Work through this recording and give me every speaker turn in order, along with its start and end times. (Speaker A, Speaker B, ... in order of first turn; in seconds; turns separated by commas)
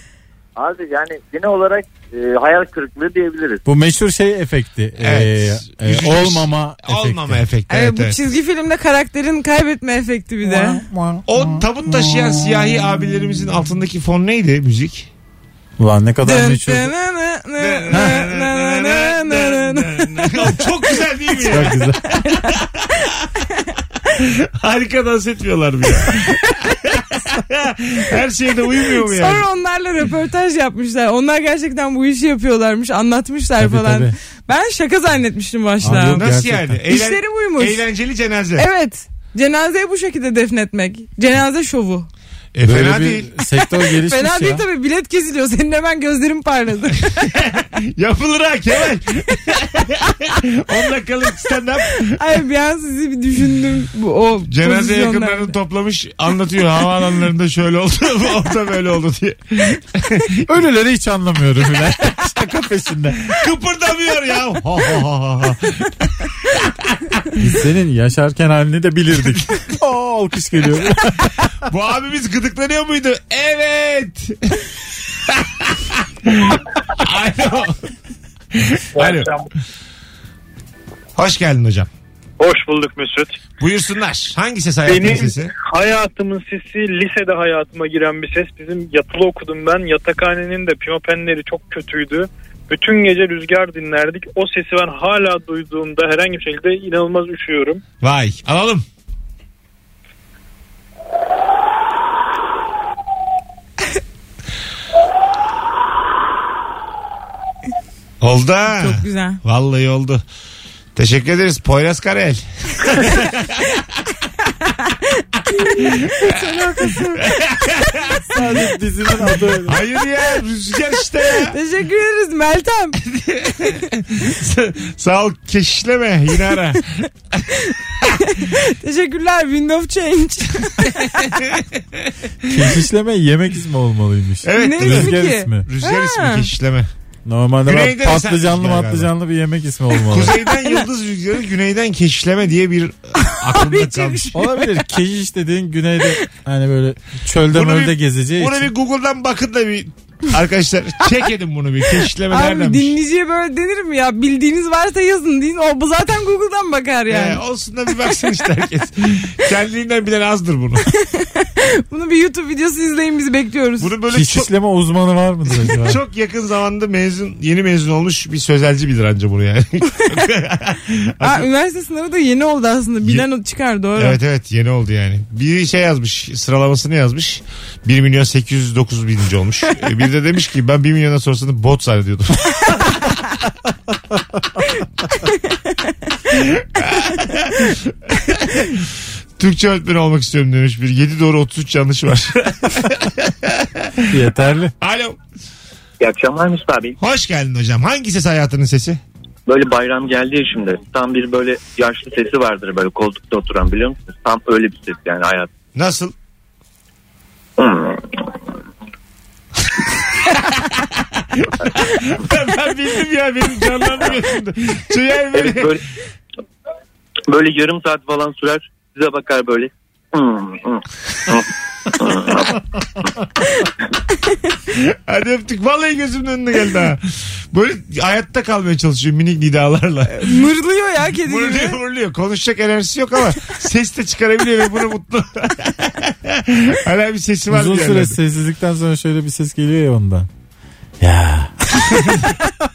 Speaker A: 0.6-3.6, Speaker B: 3.6-7.4, Speaker C: 5.0-8.2, Speaker D: 7.7-10.8, Speaker B: 10.4-12.2, Speaker C: 11.3-15.1, Speaker B: 15.8-16.9, Speaker D: 16.2-20.9, Speaker C: 17.6-21.8, Speaker B: 21.4-22.0, Speaker D: 21.5-22.6, Speaker C: 22.4-22.9, Speaker C: 24.1-29.4, Speaker D: 28.9-36.3, Speaker B: 33.6-34.1, Speaker B: 35.8-36.8, Speaker C: 35.9-38.7, Speaker D: 36.9-37.8, Speaker D: 38.5-42.1, Speaker C: 42.5-43.3, Speaker B: 42.6-44.6, Speaker D: 43.9-47.1, Speaker C: 47.1-52.2, Speaker D: 52.0-55.5, Speaker C: 54.5-60.4, Speaker B: 60.5-63.2, Speaker C: 63.2-67.2, Speaker B: 67.4-71.4, Speaker C: 71.7-74.7, Speaker C: 75.2-77.8, Speaker C: 78.5-79.3, Speaker E: 79.0-79.4, Speaker C: 81.2-81.9, Speaker E: 82.4-83.4, Speaker C: 83.6-85.5, Speaker E: 84.8-97.8, Speaker C: 98.0-98.8, Speaker C: 108.2-110.2, Speaker D: 108.7-109.4, Speaker C: 111.0-113.8, Speaker D: 114.6-117.3, Speaker C: 115.8-118.2, Speaker B: 118.3-119.8, Speaker C: 119.7-121.6, Speaker D: 121.4-123.0, Speaker C: 123.0-127.1, Speaker D: 127.7-131.2, Speaker B: 132.5-135.7, Speaker C: 134.4-136.9, Speaker D: 134.5-136.5, Speaker B: 137.2-140.3, Speaker C: 137.7-139.1, Speaker C: 140.1-144.3, Speaker D: 140.6-140.8, Speaker D: 143.4-144.6, Speaker B: 144.3-148.7, Speaker C: 147.5-152.9, Speaker D: 152.3-157.4, Speaker C: 157.1-160.9, Speaker D: 161.0-163.9, Speaker C: 163.8-164.5, Speaker B: 164.1-166.0, Speaker C: 165.8-171.5, Speaker D: 171.2-174.2, Speaker C: 173.9-182.9, Speaker C: 186.3-188.9, Speaker C: 189.4-194.0, Speaker B: 194.1-194.7, Speaker C: 194.8-195.2, Speaker F: 196.0-197.0, Speaker C: 197.0-199.0, Speaker F: 199.4-205.5, Speaker C: 205.7-206.1, Speaker F: 207.6-208.4, Speaker C: 211.3-215.8, Speaker F: 215.3-215.8, Speaker F: 217.3-222.5, Speaker C: 224.7-230.4, Speaker D: 230.1-231.8, Speaker C: 231.2-238.2, Speaker B: 237.5-240.3, Speaker B: 241.0-241.5, Speaker C: 242.0-242.3